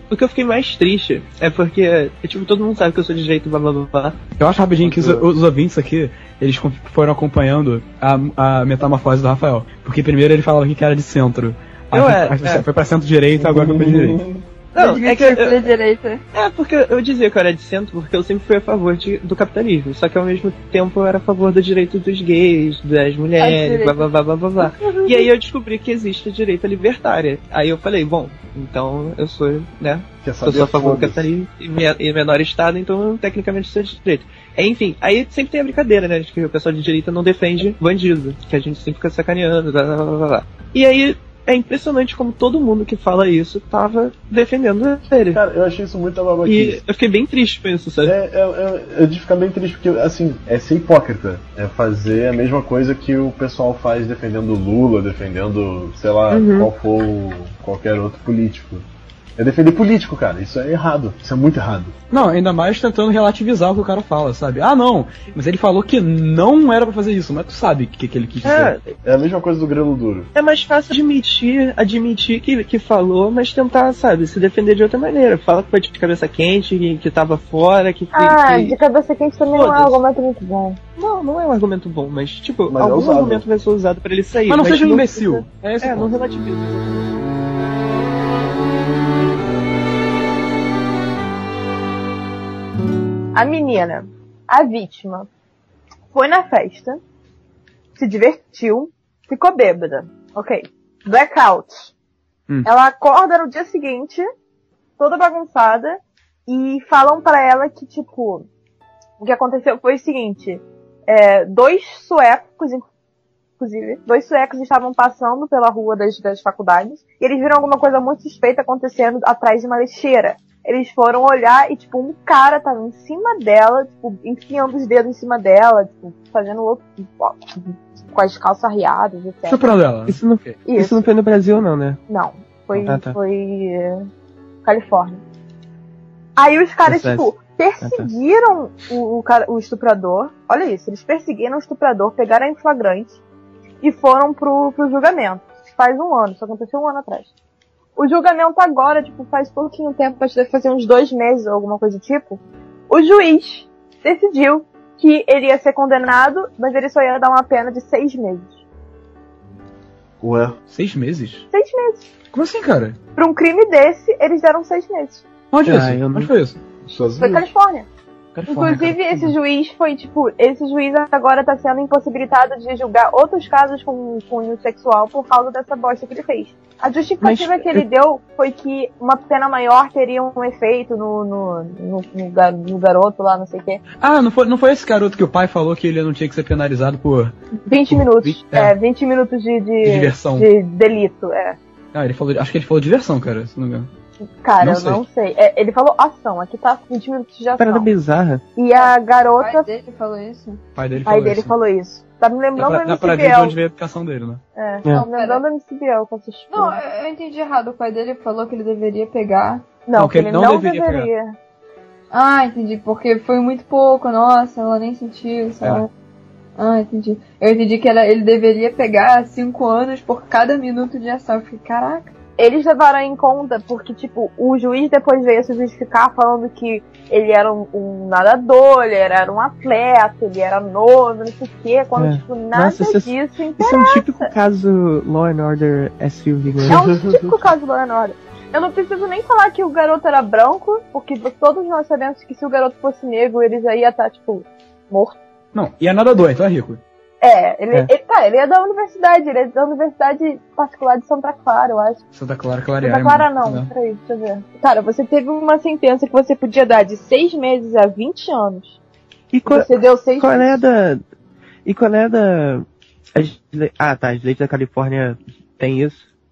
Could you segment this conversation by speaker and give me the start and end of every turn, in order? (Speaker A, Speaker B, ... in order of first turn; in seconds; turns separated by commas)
Speaker A: 0.1-4.2, Speaker B: 4.4-14.2, Speaker A: 4.8-5.2, Speaker A: 11.9-12.7, Speaker C: 13.4-14.4, Speaker A: 14.7-15.7, Speaker D: 14.8-16.2, Speaker A: 16.3-45.4, Speaker D: 23.4-24.1, Speaker D: 24.8-25.1, Speaker C: 30.2-31.3, Speaker C: 45.3-46.8, Speaker A: 46.5-48.1, Speaker C: 48.0-58.9, Speaker A: 56.3-56.7, Speaker C: 59.4-62.0, Speaker B: 62.1-68.7, Speaker A: 68.4-68.8, Speaker C: 69.0-70.3, Speaker A: 70.3-78.8, Speaker E: 78.1-80.8, Speaker A: 79.5-80.0, Speaker A: 81.0-87.2, Speaker C: 82.7-83.5, Speaker B: 84.5-86.1, Speaker E: 93.3-95.3, Speaker E: 96.1-97.0, Speaker E: 98.0-101.9, Speaker E: 102.7-104.3, Speaker E: 105.0-108.5, Speaker E: 109.2-112.9, Speaker E: 113.6-129.6, Speaker B: 129.5-130.6, Speaker A: 130.1-132.0, Speaker E: 130.7-131.1, Speaker E: 132.1-134.1, Speaker A: 132.7-133.2, Speaker E: 134.6-135.2, Speaker E: 136.4-143.2, Speaker A: 136.8-137.3, Speaker A: 137.8-138.1, Speaker E: 143.8-147.3, Speaker E: 148.0-158.5, Speaker C: 160.2-160.6, Speaker B: 160.7-161.5, Speaker E: 161.5-162.1, Speaker B: 162.3-163.0, Speaker E: 163.2-165.3, Speaker B: 165.5-166.6, Speaker A: 165.6-166.3, Speaker C: 166.9-167.5, Speaker E: 167.2-167.9, Speaker A: 168.4-168.9, Speaker E: 168.5-183.8, Speaker B: 168.6-169.3, Speaker A: 177.2-177.8, Speaker B: 184.0-187.3, Speaker E: 187.7-191.6, Speaker B: 187.9-188.8, Speaker B: 189.8-190.5, Speaker B: 191.9-193.9, Speaker E: 194.4-197.9, Speaker B: 194.6-195.0, Speaker A: 197.6-198.4, Speaker E: 198.6-199.7, Speaker D: 198.7-200.6, Speaker B: 200.8-201.5, Speaker E: 201.1-203.6, Speaker B: 202.6-204.4, Speaker E: 204.6-206.8, Speaker D: 204.9-205.4, Speaker D: 206.5-209.6, Speaker E: 209.9-211.4, Speaker B: 210.0-211.1, Speaker D: 212.1-215.9, Speaker D: 216.6-222.1, Speaker E: 222.4-234.3, Speaker A: 232.0-236.8, Speaker C: 236.6-237.3, Speaker E: 236.7-245.2, Speaker B: 245.5-246.8, Speaker E: 247.2-252.0, Speaker B: 252.2-253.7, Speaker E: 252.8-258.8, Speaker A: 259.3-261.0, Speaker E: 259.5-260.6, Speaker A: 261.6-266.0